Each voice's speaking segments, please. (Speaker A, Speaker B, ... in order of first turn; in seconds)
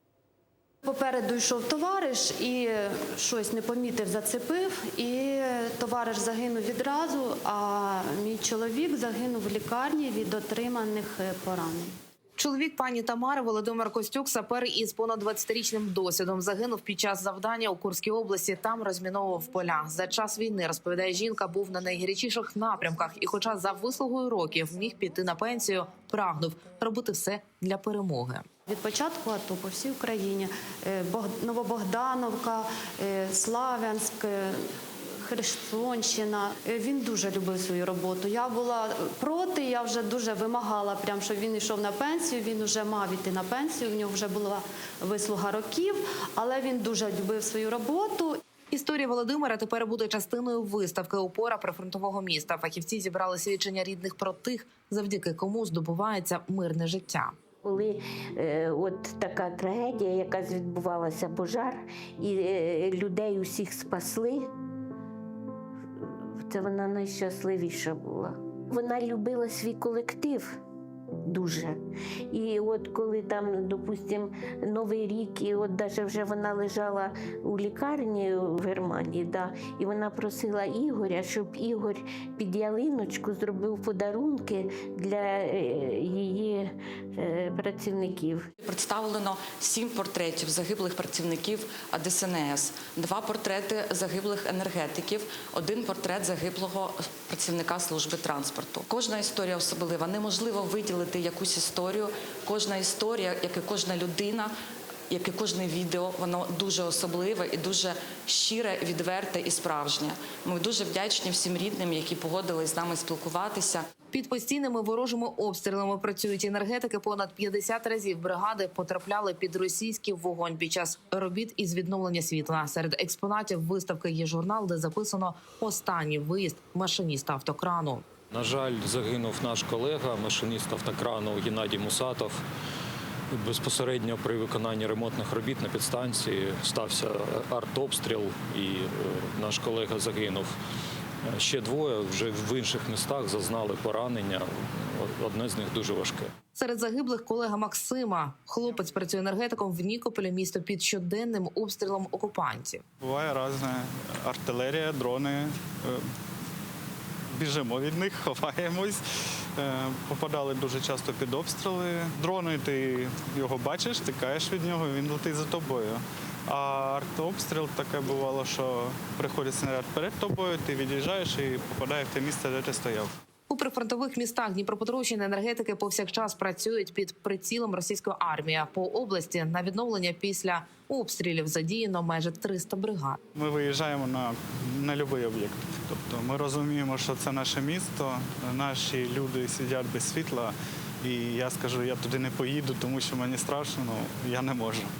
Speaker A: 0.8-11.9, 28.7-34.6, 35.2-48.4
Speaker B: 12.4-28.4, 48.7-57.3, 114.1-128.0, 146.5-152.8, 173.5-183.2
Speaker C: 57.6-64.5, 66.0-70.6, 71.3-71.8, 72.3-88.5
Speaker D: 88.6-104.5, 105.1-113.8
Speaker E: 128.3-132.4, 133.3-140.5, 141.3-146.3
Speaker F: 153.0-156.0, 157.3-159.0, 159.6-173.1, 183.3-194.9